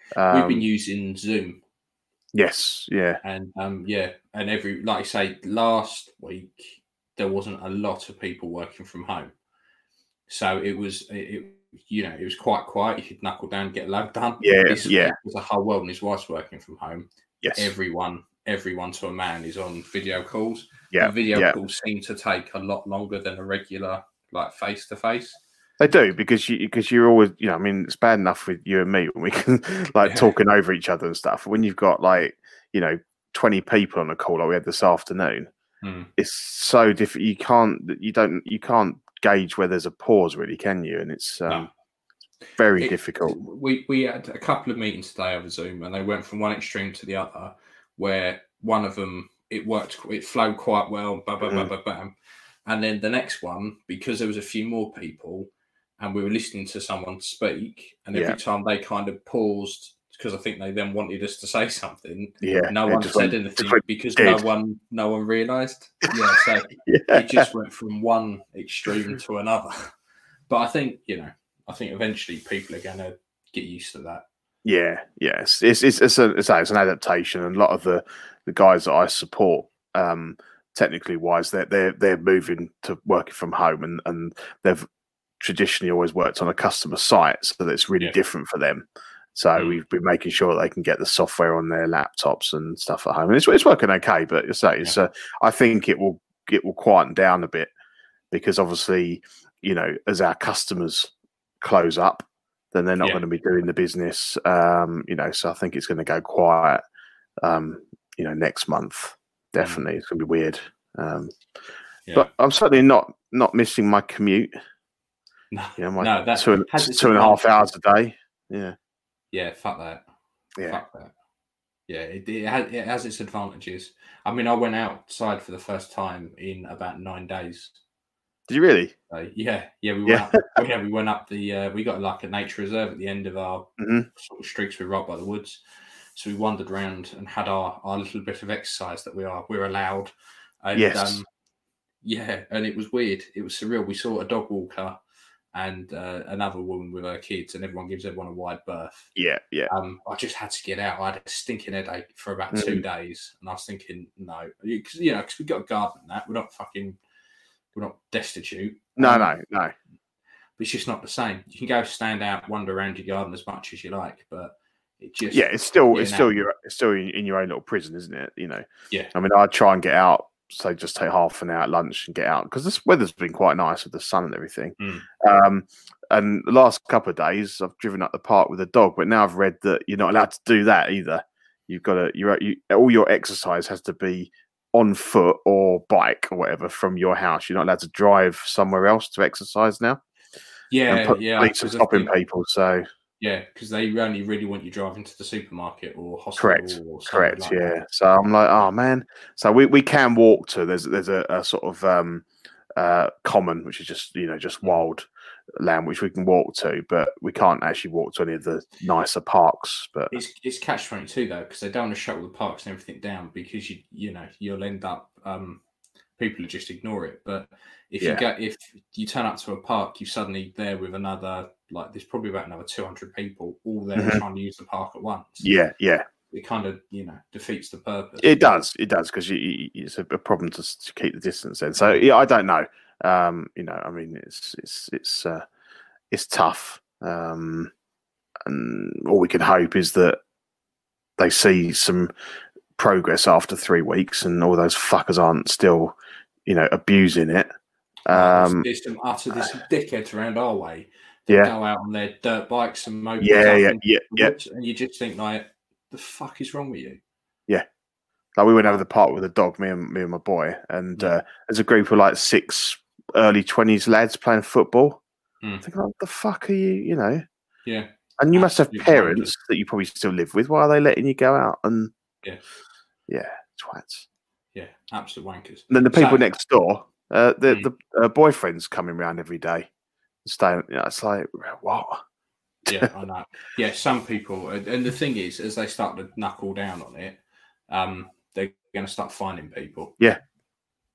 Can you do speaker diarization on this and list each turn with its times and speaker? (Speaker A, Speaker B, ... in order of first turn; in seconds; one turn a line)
Speaker A: 0.1-0.7
Speaker B: 0.3-1.6
Speaker A: 2.3-3.2
Speaker B: 3.2-9.3
Speaker B: 10.3-25.4
Speaker A: 14.4-15.2
Speaker A: 17.4-17.7
Speaker A: 20.9-21.6
Speaker A: 25.8-35.5
Speaker B: 30.0-30.3
Speaker B: 35.8-36.1
Speaker A: 36.2-41.7
Speaker A: 42.6-43.4
Speaker B: 42.8-52.1
Speaker A: 51.4-51.7
Speaker B: 52.7-69.9
Speaker A: 62.4-64.4
Speaker A: 66.9-67.5
Speaker B: 70.5-74.2
Speaker A: 74.7-84.9
Speaker A: 85.4-97.7
Speaker B: 89.6-89.8
Speaker A: 98.3-106.8
Speaker A: 107.4-111.3
Speaker B: 109.6-109.8
Speaker A: 112.2-114.5
Speaker B: 115.5-117.4
Speaker A: 115.8-118.8
Speaker B: 119.3-120.0
Speaker B: 120.7-121.1
Speaker B: 121.9-127.8
Speaker A: 128.5-128.9
Speaker B: 129.1-135.6
Speaker A: 130.1-130.4
Speaker A: 133.8-134.1
Speaker B: 136.2-140.1
Speaker B: 140.6-141.3
Speaker A: 140.8-141.2
Speaker B: 142.0-145.0
Speaker B: 145.5-149.1
Speaker A: 149.2-149.7
Speaker B: 149.7-157.0
Speaker A: 152.5-152.8
Speaker B: 157.7-159.3
Speaker A: 159.0-159.7
Speaker B: 160.6-166.3
Speaker A: 165.3-190.0
Speaker B: 174.8-175.1
Speaker B: 190.7-192.1
Speaker A: 190.9-192.8
Speaker B: 193.2-197.7
Speaker A: 196.4-202.2
Speaker A: 202.8-205.1
Speaker A: 205.6-210.2
Speaker B: 210.1-215.6
Speaker B: 216.2-225.5
Speaker A: 224.0-224.2
Speaker A: 225.4-226.1
Speaker B: 226.3-228.5
Speaker A: 228.2-235.4
Speaker A: 236.1-237.7
Speaker A: 238.5-240.2
Speaker A: 241.2-242.1
Speaker A: 242.8-245.9
Speaker A: 246.5-247.5
Speaker A: 248.1-248.7
Speaker B: 248.1-257.0
Speaker A: 251.3-251.5
Speaker A: 253.2-254.3
Speaker A: 258.4-265.0
Speaker A: 265.6-267.2
Speaker B: 267.7-269.3
Speaker A: 268.2-271.9
Speaker A: 273.1-274.1
Speaker B: 274.5-276.3
Speaker A: 275.7-279.7
Speaker A: 280.2-282.0
Speaker B: 282.7-290.0